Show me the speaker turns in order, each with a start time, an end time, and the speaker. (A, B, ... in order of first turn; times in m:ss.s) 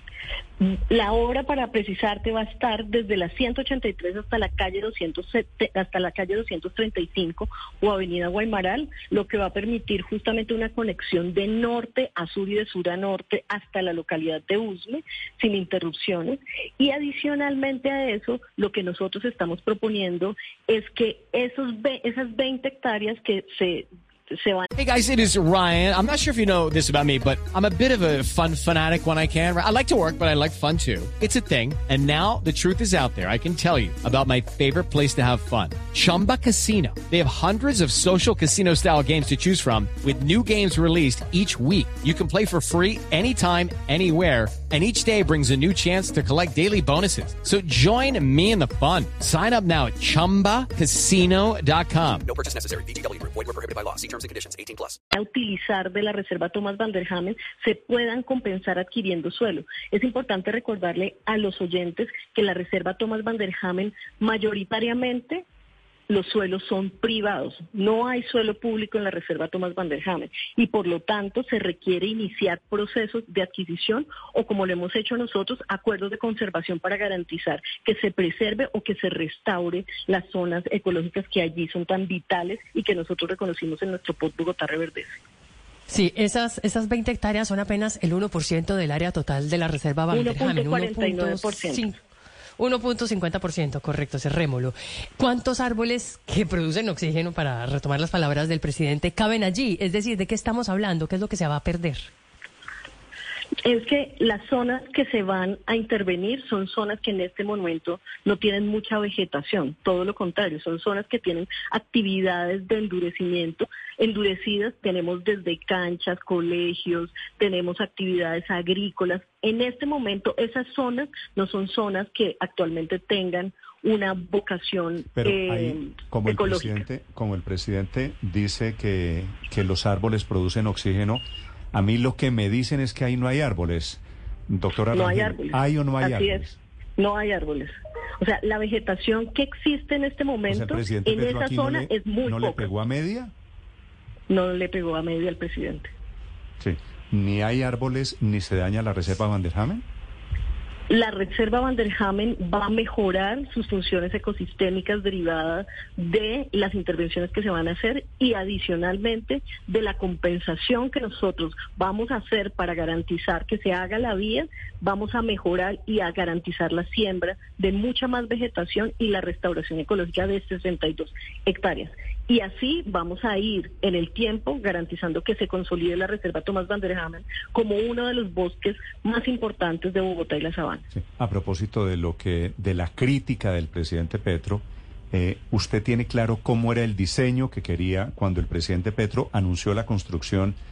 0:00.6-0:24.7 A
0:24.8-0:52.2 B
0:52.2-0:55.0 C
0:55.1-1:05.4 A
1:06.1-1:25.2 A
1:25.9-1:32.0 D
1:30.1-1:31.9 A
1:32.6-1:42.1 D
1:43.6-2:06.8 A
2:05.1-2:11.2 E
2:11.7-2:16.6 E
2:14.9-2:16.4 A
2:17.0-2:22.7 A
2:20.5-2:23.3 E
2:24.3-2:25.9 A
2:26.6-2:29.8 E
2:30.9-3:00.8 A
3:00.9-3:10.6 E